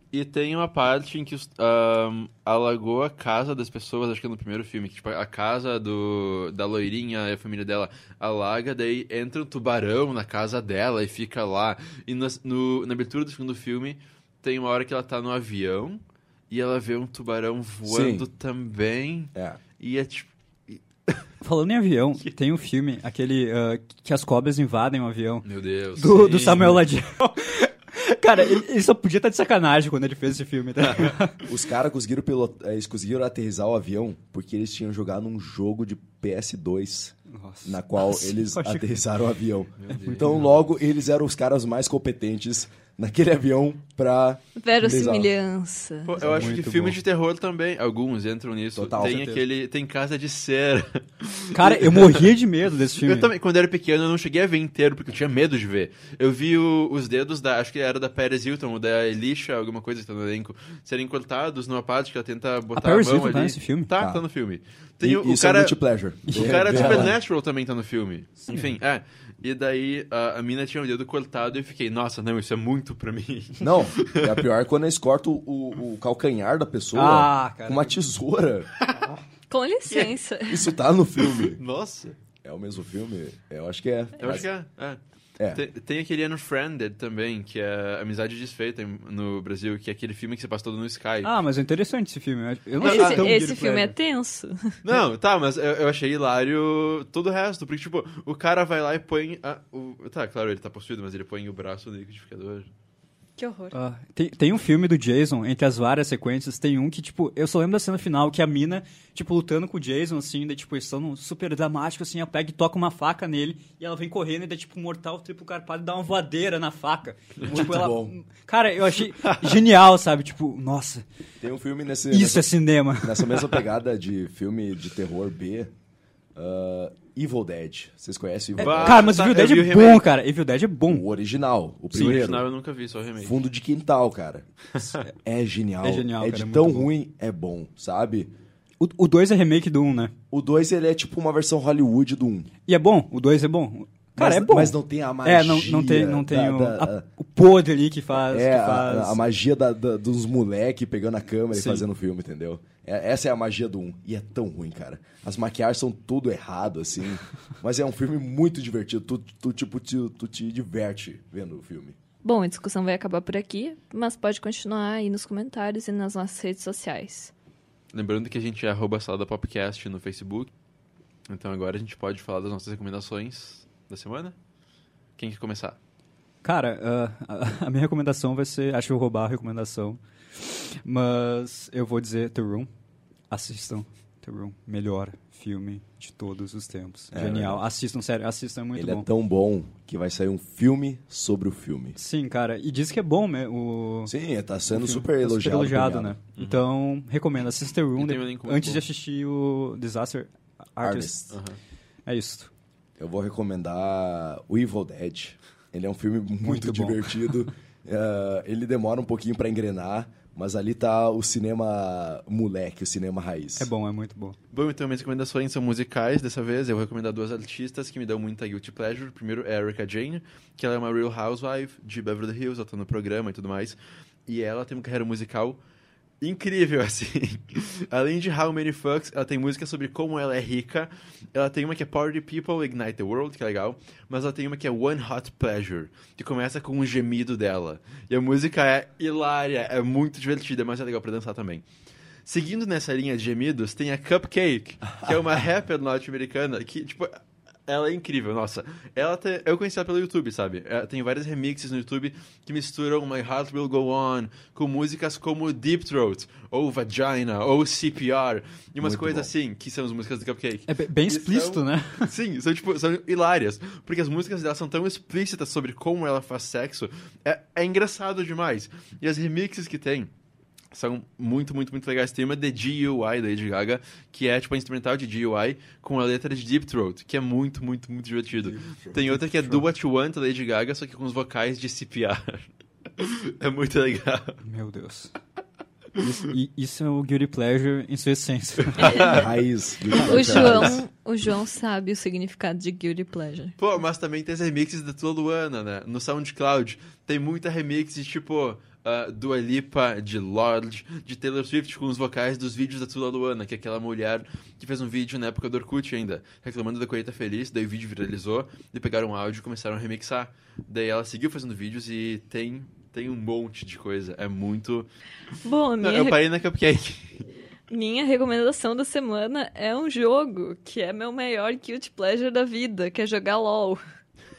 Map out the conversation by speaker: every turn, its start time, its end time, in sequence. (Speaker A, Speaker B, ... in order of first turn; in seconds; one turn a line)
Speaker A: 0.1-21.2
Speaker B: 17.9-18.3
Speaker B: 19.3-19.6
Speaker C: 21.4-25.4
Speaker A: 25.4-26.8
Speaker C: 26.0-31.4
Speaker B: 31.5-45.3
Speaker C: 37.3-38.9
Speaker A: 39.8-40.5
Speaker C: 39.9-40.4
Speaker D: 44.6-46.1
Speaker A: 46.0-52.3
Speaker C: 46.2-47.0
Speaker B: 48.7-49.3
Speaker C: 49.0-49.4
Speaker C: 51.5-53.3
Speaker A: 53.0-74.4
Speaker C: 62.7-63.9
Speaker B: 64.0-64.2
Speaker B: 65.0-67.1
Speaker C: 66.3-67.1
Speaker C: 68.5-68.8
Speaker B: 73.6-78.7
Speaker C: 76.9-77.9
Speaker A: 78.8-79.1
Speaker D: 79.5-80.7
Speaker A: 79.8-80.2
Speaker B: 80.5-81.6
Speaker A: 81.2-82.2
Speaker B: 82.4-84.5
Speaker A: 84.2-85.0
Speaker A: 85.5-91.4
Speaker C: 91.2-93.9
Speaker A: 92.8-93.3
Speaker D: 92.8-94.8
Speaker A: 94.8-102.7
Speaker D: 103.4-103.7
Speaker C: 103.7-121.0
Speaker B: 117.5-118.2
Speaker A: 119.2-119.5
Speaker B: 121.4-125.7
Speaker C: 122.1-123.4
Speaker B: 126.3-129.0
Speaker A: 128.6-130.1
Speaker C: 128.6-131.0
Speaker B: 130.9-132.4
Speaker A: 131.9-133.4
Speaker B: 133.2-134.4
Speaker C: 134.8-135.1
Speaker B: 135.2-138.3
Speaker C: 135.8-136.9
Speaker C: 138.8-140.1
Speaker B: 140.3-142.5
Speaker C: 142.7-149.2
Speaker B: 144.2-147.1
Speaker B: 148.1-161.9
Speaker C: 151.5-151.8
Speaker D: 162.2-167.3
Speaker A: 167.9-170.5
Speaker A: 171.3-174.3
Speaker A: 175.2-175.8
Speaker C: 176.4-182.7
Speaker C: 183.3-189.1
Speaker B: 187.1-187.6
Speaker B: 188.7-192.0
Speaker C: 191.9-194.1
Speaker B: 194.1-196.2
Speaker C: 194.7-201.1
Speaker A: 196.4-196.6
Speaker A: 197.9-198.8
Speaker B: 200.8-201.4
Speaker A: 201.3-201.6
Speaker C: 202.1-202.5
Speaker B: 203.0-213.7
Speaker C: 206.4-207.1
Speaker C: 213.6-214.3
Speaker A: 214.5-225.6
Speaker A: 226.2-241.6
Speaker A: 242.2-270.1
Speaker B: 258.8-259.3
Speaker C: 260.7-262.1
Speaker A: 270.7-284.4
Speaker B: 278.4-279.2
Speaker C: 279.3-279.6
Speaker C: 284.4-285.1
Speaker C: 286.0-289.1
Speaker A: 288.8-289.3
Speaker D: 288.8-289.2
Speaker B: 289.1-290.8
Speaker D: 289.9-293.6
Speaker A: 293.6-314.9
Speaker D: 315.4-316.2
Speaker A: 315.8-317.2
Speaker D: 317.7-323.8